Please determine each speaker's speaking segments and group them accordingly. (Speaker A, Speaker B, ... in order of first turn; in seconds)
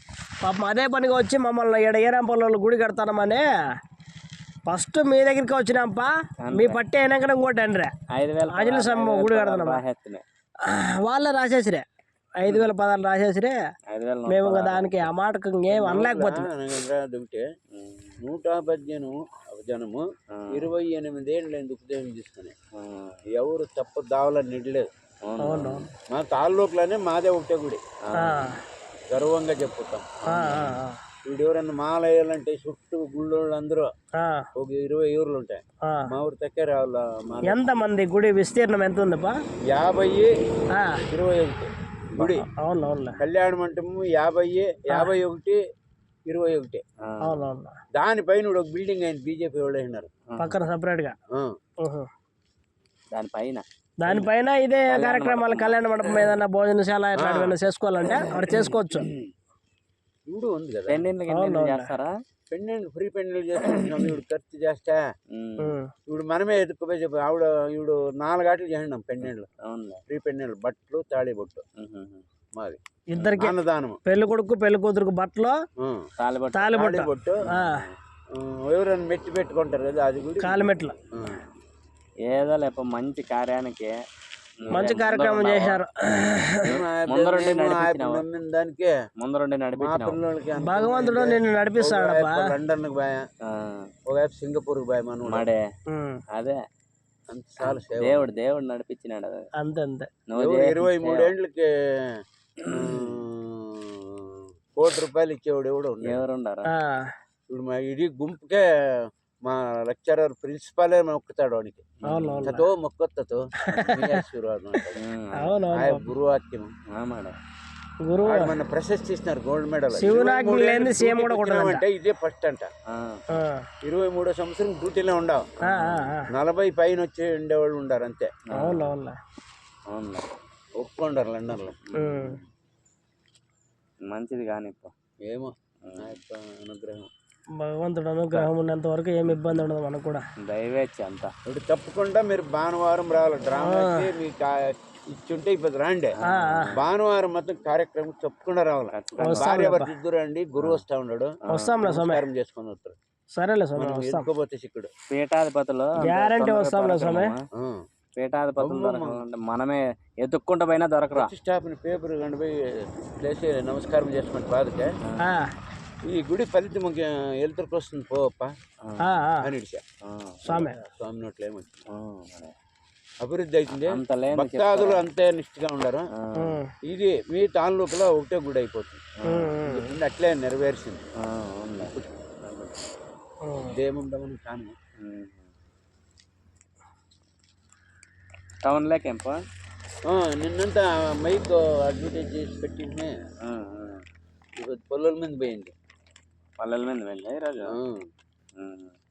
Speaker A: 0.4-3.5, 4.7-7.9, 8.5-9.8, 10.6-11.8, 12.4-13.6, 14.3-16.5, 25.4-25.9, 28.2-28.6, 30.3-31.0, 34.2-34.5, 37.5-39.4, 40.8-41.0, 42.2-43.2, 47.2-47.8, 50.4-51.1, 54.0-59.1, 61.3-61.9, 65.6-65.9, 73.2-75.6, 76.5-77.9, 80.4-81.0, 84.7-86.8, 90.6-92.5, 95.9-96.2, 99.6-100.1, 106.7-107.1, 112.1-112.7, 113.7-114.2, 115.4-116.1, 118.1-118.6, 119.9-121.8, 123.3-123.7, 125.7-126.3, 128.6-129.2, 131.9-132.4, 137.6-140.3, 143.6-144.1, 146.3-146.8, 149.2-149.9, 151.5-152.2, 153.4-154.3, 156.0-157.3, 165.2-165.5, 169.0-169.5, 170.5-170.8, 176.4-176.7, 179.3-180.0, 183.5-183.8
Speaker B: 6.4-6.8, 8.1-10.2, 13.9-15.1, 17.7-18.2, 20.3-20.7, 22.8-23.2, 25.2-25.9, 28.1-28.4, 30.4-30.8, 47.1-47.5, 53.1-54.3, 54.9-56.4, 60.9-62.1, 65.3-65.8, 69.2-70.0, 71.8-72.2, 76.2-76.7, 77.5-77.9, 82.3-83.9, 84.6-85.8, 86.8-88.2, 89.2-90.2, 93.5-93.9, 95.3-95.6, 96.3-96.6, 97.6-99.4, 100.3-101.3, 102.6-103.1, 106.0-106.7, 112.0-112.4, 115.0-115.6, 117.0-117.4, 122.9-123.2, 128.5-129.0, 129.9-130.3, 131.9-132.4, 134.1-134.9, 135.8-136.2, 140.4-141.3, 146.3-146.8, 148.9-149.5, 150.6-150.8, 155.1-157.4, 158.2-161.3, 170.1-170.5, 171.9-172.5, 173.7-175.1, 179.3-179.6, 181.2-181.9, 182.4-182.8, 185.0-185.5, 188.6-189.4, 193.5-194.0, 196.6-197.8, 198.6-198.9
Speaker C: 15.7-17.4, 18.2-22.5, 23.3-24.9, 26.1-27.8, 29.1-30.3, 31.3-33.9, 34.6-37.6, 39.7-40.3, 41.1-42.5, 43.2-45.6, 46.3-46.8, 48.0-50.1, 57.2-57.6, 60.3-61.1, 62.5-65.0, 66.1-69.5, 70.1-71.6, 73.4-74.0, 76.7-77.4, 78.3-81.4, 86.6-88.9, 89.8-93.2, 94.1-95.5, 97.3-98.4, 100.4-106.2, 107.5-115.0, 115.7-116.7, 118.2-122.7, 123.8-125.5, 126.3-128.3, 130.8-131.8, 135.3-137.1, 141.5-146.1, 146.7-153.0, 153.8-154.9, 158.6-159.2, 161.1-164.9, 166.1-168.5, 169.4-169.8, 170.5-171.8, 173.2-176.1, 176.9-179.1, 179.6-181.0, 183.7-184.8, 190.1-193.1, 194.6-195.7, 197.7-198.1